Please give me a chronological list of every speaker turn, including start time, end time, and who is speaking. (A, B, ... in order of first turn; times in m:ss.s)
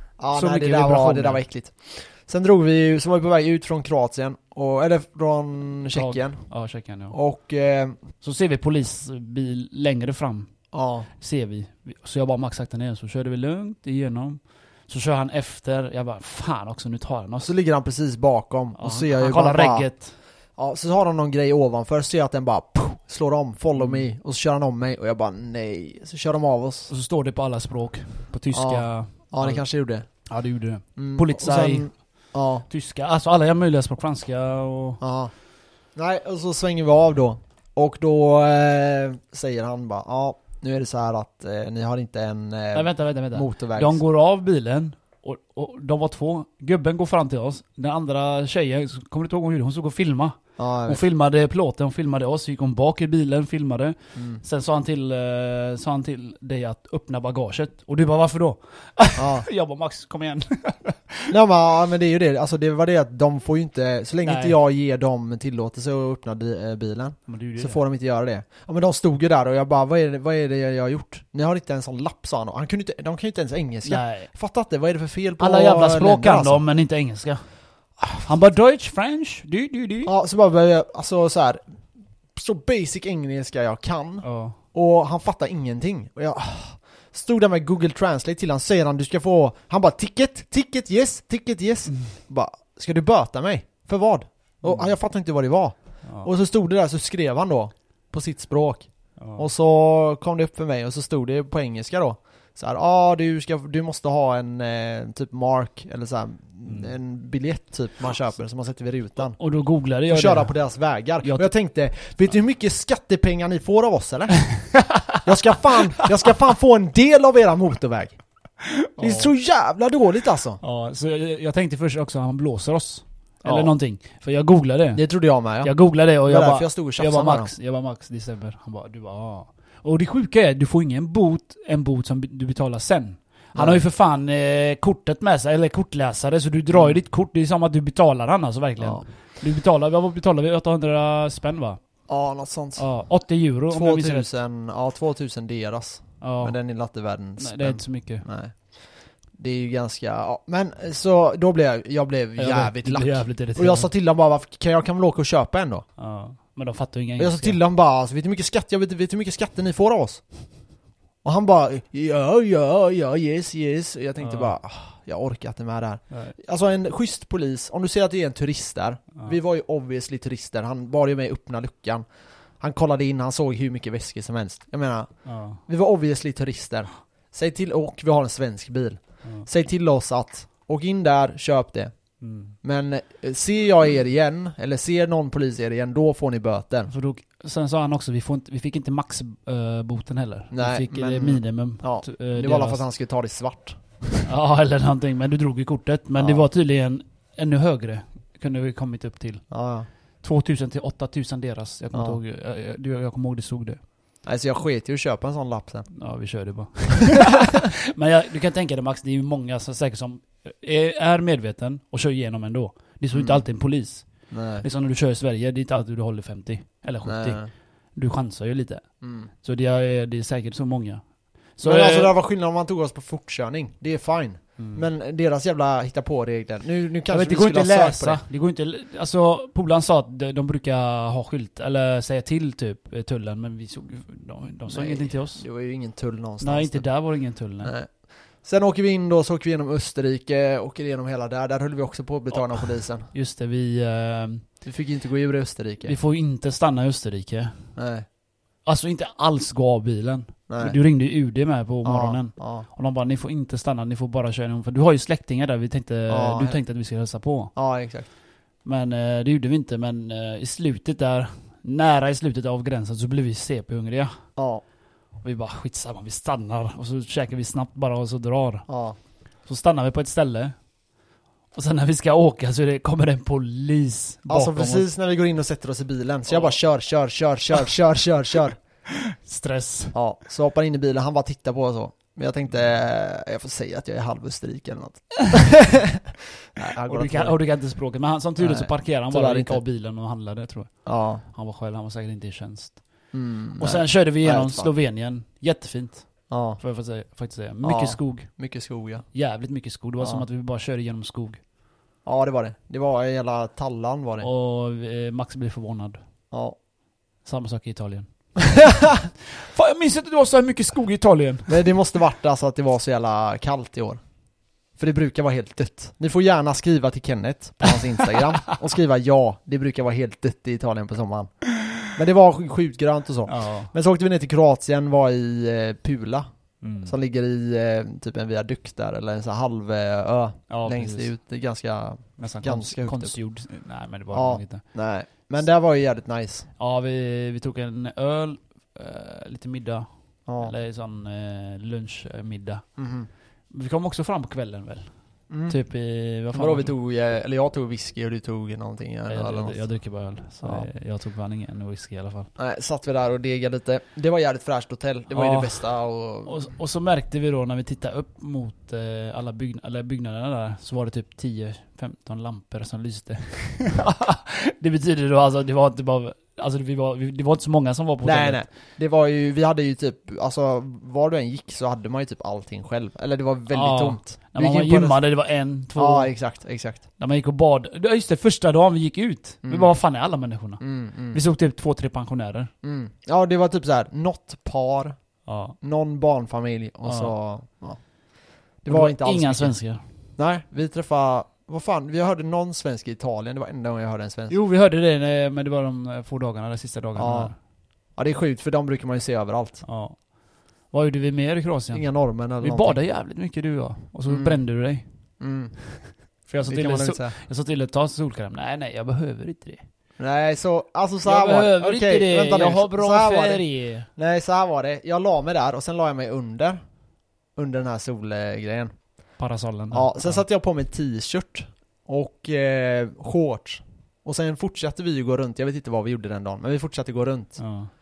0:00.2-0:06.4 A
0:00.3-0:01.4 B
0:05.9-0:07.1 B
0:07.1-0:08.0 A
0:08.2-0:10.5 B
0:10.7-0:11.1 A
0:11.2-0:17.5 B
0:17.4-0:19.9 A
0:18.8-0:20.1 B
0:20.6-0:26.9 A
0:23.8-0:24.0 B
0:26.9-0:29.6 B
0:28.5-0:30.1 A
0:30.2-0:31.9 B
0:31.0-0:32.6 A
0:32.7-0:35.0 B
0:35.0-0:35.3 A
0:36.0-0:44.0 A
0:42.7-1:01.3 B
0:50.6-0:51.0 A
0:54.2-0:54.4 A
0:59.2-0:59.4 A
1:01.3-1:16.6 A
1:04.2-1:04.6 B
1:07.3-1:07.8 B
1:13.8-1:14.3 B
1:15.4-1:17.4 B
1:18.2-1:20.1 B
1:20.0-1:21.6 A
1:22.3-1:49.4 A
1:24.2-1:24.6 B
1:34.6-1:34.9 B
1:36.0-1:36.3 B
1:39.2-1:39.4 B
1:46.7-1:46.9 B
1:49.4-1:50.6 B
1:50.1-1:54.4 A
1:51.2-1:51.5 B
1:54.7-1:55.1 B
1:55.2-1:58.2 A
1:58.6-1:59.3 B
1:59.0-2:00.6 A
2:00.6-2:05.0 B
2:03.4-2:03.7 A
2:04.9-2:05.7 A
2:05.6-2:21.8 B
2:06.2-2:07.5 A
2:13.5-2:13.8 A
2:18.8-2:19.0 A
2:22.1-2:22.9 A
2:22.8-2:24.3 B
2:23.7-2:28.8 A
2:26.2-2:26.6 B
2:27.4-2:28.2 B
2:29.3-2:35.8 A
2:32.4-2:33.9 B
2:36.0-2:37.6 B
2:37.2-2:40.2 A
2:41.2-2:52.0 A
2:44.2-2:44.5 B
2:52.6-3:01.9 A
2:55.2-2:55.6 B
3:02.2-3:02.6 B
3:02.6-3:06.9 A
3:06.9-3:12.8 B
3:10.5-3:14.3 A
3:14.2-3:19.4 B
3:16.2-3:16.4 A
3:19.5-3:19.9 A
3:20.2-3:23.8 B
3:24.2-3:25.9 A
3:25.9-3:34.0 B
3:33.1-3:33.4 A
3:34.3-3:34.6 A
3:34.6-3:37.4 B
3:37.0-3:37.5 A
3:37.9-3:38.8 B
3:39.0-3:39.3 A
3:39.4-3:41.0 B
3:41.6-3:42.1 B
3:41.6-3:48.2 A
3:44.6-3:44.8 B
3:47.1-3:55.4 B
3:54.7-3:56.9 A
3:56.4-3:57.7 B
3:57.6-3:57.9 A
3:58.4-4:03.1 A
4:02.3-4:04.4 B
4:04.6-4:05.9 A
4:05.8-4:07.6 B
4:07.8-4:08.0 A
4:08.6-4:17.5 B
4:10.5-4:10.8 A
4:11.8-4:12.6 A
4:16.1-4:16.6 A
4:17.5-4:18.1 A
4:18.6-4:24.1 B
4:24.4-4:24.6 A
4:25.2-4:28.6 B
4:28.7-4:29.0 A
4:29.4-4:30.5 B
4:31.5-4:34.9 B
4:34.3-4:38.6 A
4:36.3-4:36.6 B
4:38.9-4:39.9 B
4:39.9-4:47.4 A
4:46.9-4:52.8 B
4:48.4-4:49.6 A
4:50.8-4:51.2 A
4:53.1-4:54.7 A
4:53.6-4:58.3 B
4:56.3-4:56.6 A
4:57.6-4:59.0 A
4:59.1-5:01.4 B
5:00.0-5:00.2 A
5:02.0-5:04.3 A
5:04.2-5:06.0 B
5:06.3-5:06.6 A
5:07.2-5:08.1 B
5:08.6-5:09.1 A
5:09.2-5:11.7 B
5:11.5-5:14.0 A
5:14.8-5:26.2 A
5:23.3-5:23.7 B
5:26.6-5:27.0 B
5:26.8-5:33.2 A
5:30.5-5:31.1 B
5:32.2-5:34.6 B
5:34.1-5:36.5 A
5:36.6-5:39.9 B
5:40.3-5:40.5 A
5:40.4-5:42.6 B
5:42.8-5:43.1 A
5:43.5-5:44.8 B
5:45.3-5:45.6 A
5:45.5-5:46.7 B
5:46.3-5:49.7 A
5:49.1-5:52.3 B
5:50.4-5:50.7 A
5:52.4-5:56.5 A
5:55.1-5:55.6 B
5:56.2-6:08.4 B
6:08.0-6:15.0 A
6:13.5-6:16.1 B
6:15.8-6:16.8 A
6:17.0-6:22.5 B
6:19.4-6:19.7 A
6:20.6-6:21.2 A
6:22.6-6:24.9 A
6:25.2-6:25.6 B
6:25.6-6:27.8 A
6:26.8-6:27.1 B
6:28.6-6:29.5 A
6:28.7-6:29.8 B
6:30.2-6:34.3 A
6:34.3-6:37.3 B
6:37.0-6:37.3 A
6:37.9-6:39.6 A
6:39.6-6:40.0 B
6:40.7-6:41.8 B
6:41.7-6:42.8 A
6:42.4-6:44.8 B
6:44.1-6:44.4 A
6:45.2-6:45.6 A
6:46.3-6:49.6 B
6:46.4-6:47.1 A
6:50.0-6:56.6 A
6:51.0-6:53.9 B
6:57.4-6:58.7 A
6:59.2-7:00.2 B
6:59.7-7:07.4 A
7:07.4-7:07.7 B